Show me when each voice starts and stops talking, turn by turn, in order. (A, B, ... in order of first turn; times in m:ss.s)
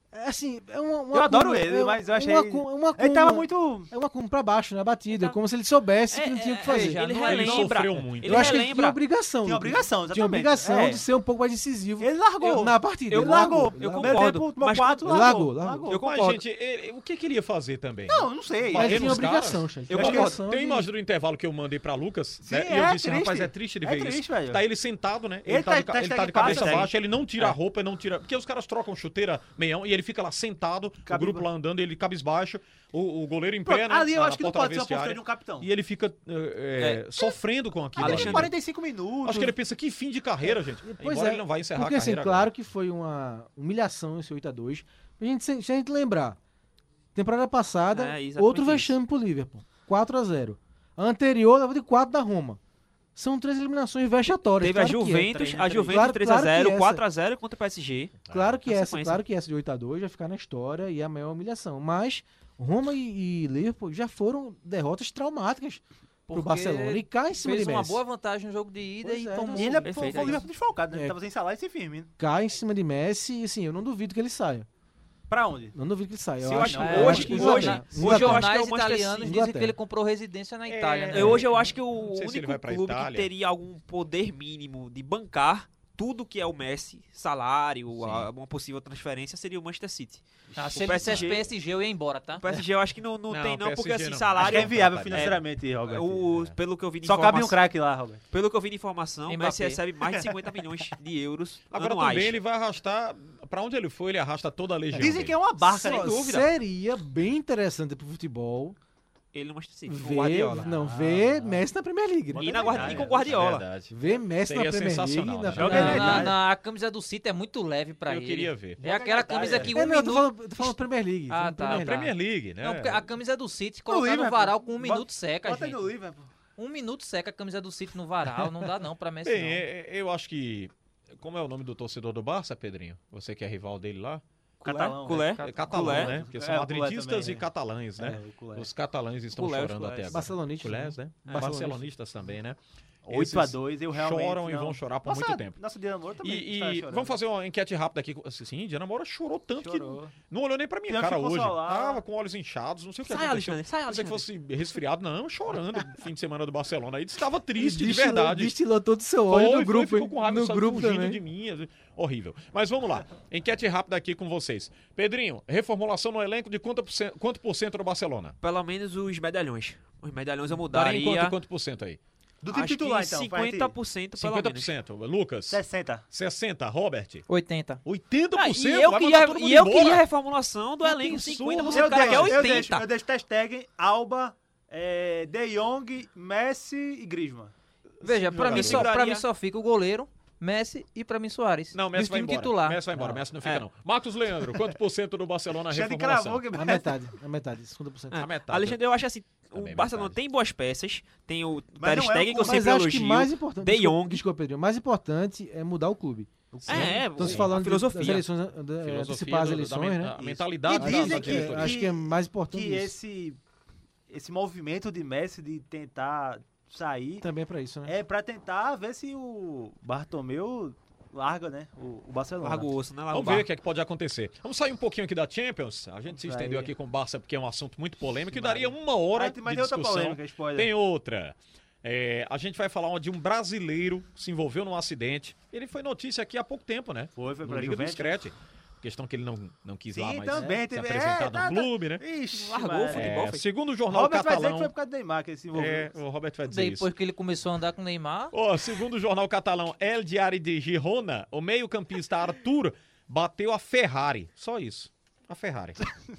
0:00.1-0:07.1 A
0:01.1-0:03.9 B
0:06.1-0:09.0 C
0:06.2-0:07.7 D
0:07.2-0:08.6 E
0:08.2-0:14.4 A
0:09.4-0:11.0 B
0:12.0-0:16.0 B
0:13.1-0:15.0 C
0:15.0-0:15.9 A
0:15.9-0:16.4 C
0:15.9-0:38.5 E
0:18.0-0:19.3 B
0:18.7-0:20.9 A
0:19.9-0:20.3 C
0:19.9-0:20.4 B
0:22.4-0:24.6 B
0:25.4-0:26.9 B
0:26.2-0:27.5 C
0:31.0-0:31.5 B
0:33.6-0:35.7 B
0:36.8-0:37.3 C
0:38.0-0:39.6 B
0:38.0-0:38.5 C
0:39.2-0:42.5 E
0:40.5-0:46.4 A
0:47.1-0:52.6 A
0:47.9-0:49.0 C
0:53.1-0:57.0 A
0:54.6-0:59.2 C
0:55.3-0:56.1 B
0:58.3-0:58.6 E
0:58.3-1:08.0 A
1:06.3-1:10.4 D
1:09.0-1:09.8 A
1:09.5-1:12.1 B
1:09.8-1:10.4 C
1:10.9-1:11.2 A
1:12.2-1:14.7 A
1:15.3-1:15.8 B
1:15.7-1:18.5 A
1:16.4-1:19.4 C
1:16.4-1:17.7 B
1:16.8-1:21.4 D
1:19.2-1:19.8 A
1:20.7-1:21.4 E
1:21.1-1:31.4 C
1:22.0-1:23.3 E
1:27.9-1:28.3 E
1:30.5-1:32.4 D
1:32.4-1:37.6 C
1:33.3-1:35.4 E
1:34.4-1:36.3 B
1:37.0-1:38.2 B
1:38.3-1:42.4 C
1:39.3-1:39.8 D
1:40.0-1:40.6 B
1:41.7-1:45.4 E
1:44.9-1:48.8 A
1:45.0-1:46.2 B
1:45.7-1:46.4 C
1:49.3-1:50.7 C
1:49.9-1:53.1 A
1:50.6-1:51.6 B
1:52.3-1:53.4 B
1:52.4-1:53.6 C
1:52.6-1:56.3 E
1:53.9-1:56.3 A
1:55.5-1:56.4 B
1:55.6-2:00.8 D
1:58.0-1:58.8 E
1:58.8-1:59.8 B
1:59.3-1:59.6 E
1:59.7-2:02.1 A
2:01.3-2:05.9 D
2:01.6-2:03.0 E
2:03.9-2:06.3 B
2:06.6-2:09.6 D
2:09.2-2:14.2 E
2:14.6-2:16.2 C
2:14.6-2:18.7 B
2:15.4-2:16.1 D
2:15.4-2:25.6 E
2:19.3-2:20.3 C
2:20.1-2:21.9 A
2:21.2-2:21.5 C
2:23.0-2:27.2 B
2:26.2-2:38.6 E
2:29.6-2:30.2 B
2:30.9-2:32.0 B
2:33.0-2:34.2 C
2:37.5-2:41.2 A
2:39.3-2:48.4 E
2:48.4-2:51.4 C
2:50.7-2:52.0 E
2:52.4-2:53.7 B
2:52.5-2:54.7 C
2:54.2-2:57.2 E
2:55.5-2:56.0 B
2:57.3-2:57.8 D
2:57.8-3:00.0 E
2:58.4-3:02.9 C
3:00.8-3:02.6 E
3:01.7-3:07.5 B
3:08.0-3:12.8 D
3:08.2-3:08.9 E
3:08.3-3:09.2 C
3:11.7-3:16.5 E
3:15.6-3:16.9 B
3:16.5-3:18.2 A
3:18.1-3:24.2 C
3:18.1-3:18.8 E
3:19.5-3:20.2 E
3:21.8-3:22.7 B
3:22.4-3:30.2 A
3:26.5-3:27.4 B
3:26.7-3:28.2 C
3:27.2-3:27.6 E
3:28.8-3:31.8 E
3:30.2-3:33.4 B
3:30.8-3:33.0 A
3:34.1-3:37.3 B
3:37.2-3:37.9 A
3:37.8-3:42.7 B
3:42.4-3:43.5 C
3:43.1-4:02.0 E
3:46.1-3:46.7 B
3:48.3-3:50.7 B
3:57.2-3:58.2 B
3:59.9-4:05.9 B
4:00.3-4:00.6 A
4:02.3-4:03.4 C
4:02.9-4:04.7 E
4:05.5-4:06.9 E
4:06.4-4:08.3 D
4:08.3-4:15.8 E